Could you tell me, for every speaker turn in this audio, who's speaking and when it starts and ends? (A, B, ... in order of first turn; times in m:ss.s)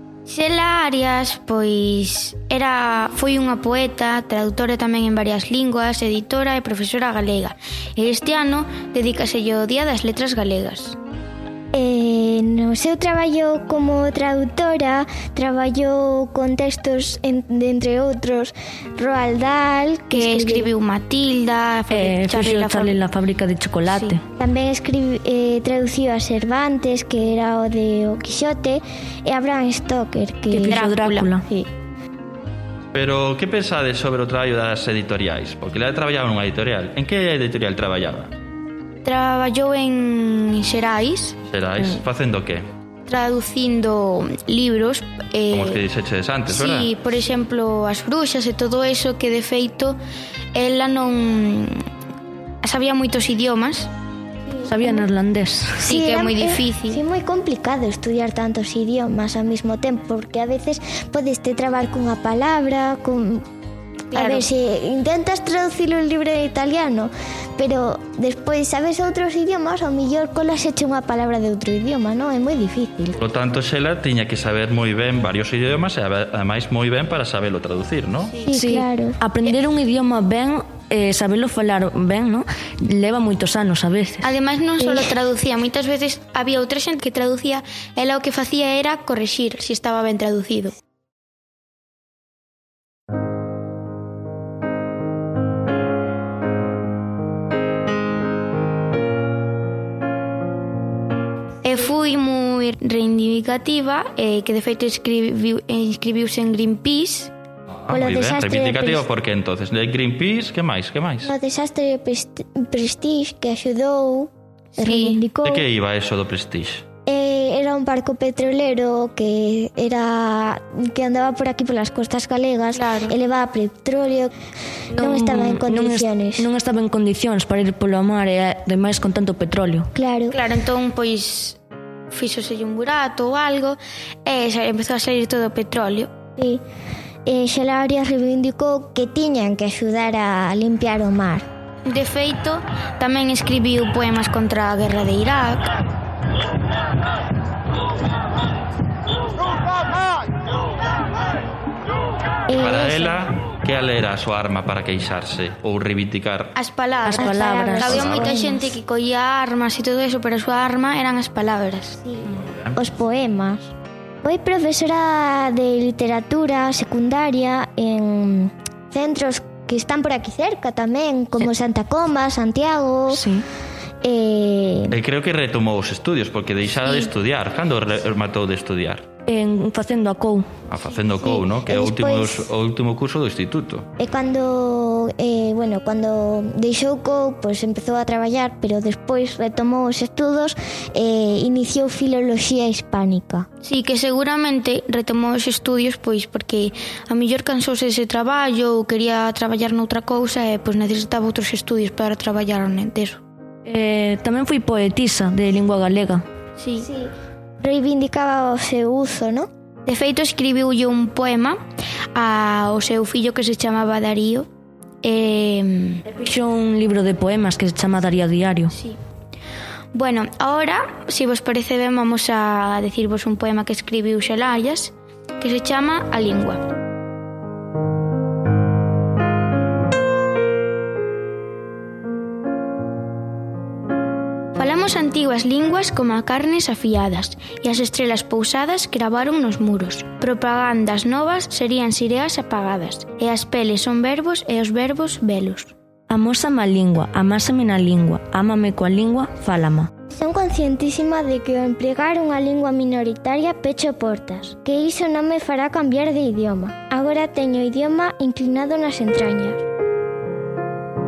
0:00.3-0:11.0 A
0:11.7-0:20.7 B
0:20.1-0:23.0 A
0:21.9-0:24.2 C
0:23.9-0:24.2 A
0:24.4-0:30.9 B
0:30.5-0:31.5 C
0:30.7-0:31.3 A
0:32.9-0:38.3 D
0:39.0-0:41.4 A
0:41.5-0:42.6 D
0:43.1-0:45.8 A
0:45.5-0:46.9 D
0:46.5-0:50.0 A
0:50.5-0:51.8 A
0:52.6-0:53.9 A
0:54.5-0:55.1 B
0:54.6-0:55.9 C
0:55.8-0:57.0 A
0:55.8-1:03.4 B
1:04.1-1:13.2 B
1:04.1-1:04.5 A
1:13.2-1:18.4 D
1:18.3-1:18.8 A
1:18.5-1:19.2 B
1:18.5-1:24.3 C
1:24.2-1:30.8 A
1:24.8-1:25.1 B
1:41.6-1:47.3 A
1:47.7-1:51.3 D
1:47.9-1:49.1 B
1:51.2-1:55.6 B
1:54.8-1:55.2 A
1:55.4-1:56.8 D
1:57.1-2:04.3 B
2:02.8-2:03.1 A
2:05.0-2:06.5 B
2:05.0-2:09.9 C
2:10.0-2:10.4 B
2:10.3-2:16.1 A
2:16.4-2:16.6 B
2:17.3-2:21.4 B
2:21.9-2:25.7 A
2:32.5-2:33.2 B
2:32.6-2:36.5 D
2:36.6-2:42.0 A
2:37.0-2:38.0 C
2:37.1-2:38.8 B
2:37.9-2:38.3 D
2:42.0-2:43.7 B
2:42.3-2:42.8 D
2:44.2-2:53.3 B
2:53.1-2:53.4 C
2:54.0-2:55.0 B
2:54.9-2:59.1 D
2:59.3-3:00.5 C
3:00.7-3:03.9 D
3:01.2-3:02.5 B
3:04.0-3:13.5 B
3:13.6-3:23.2 A
3:23.7-3:26.2 C
3:26.6-3:26.9 A
3:26.8-3:29.5 B
3:29.9-3:31.6 A
3:32.1-3:34.5 A
3:35.0-3:36.0 A
3:36.1-3:38.7 C
3:39.9-3:46.6 A
3:54.6-4:05.7 A
4:06.1-4:09.9 C
4:10.1-4:19.6 B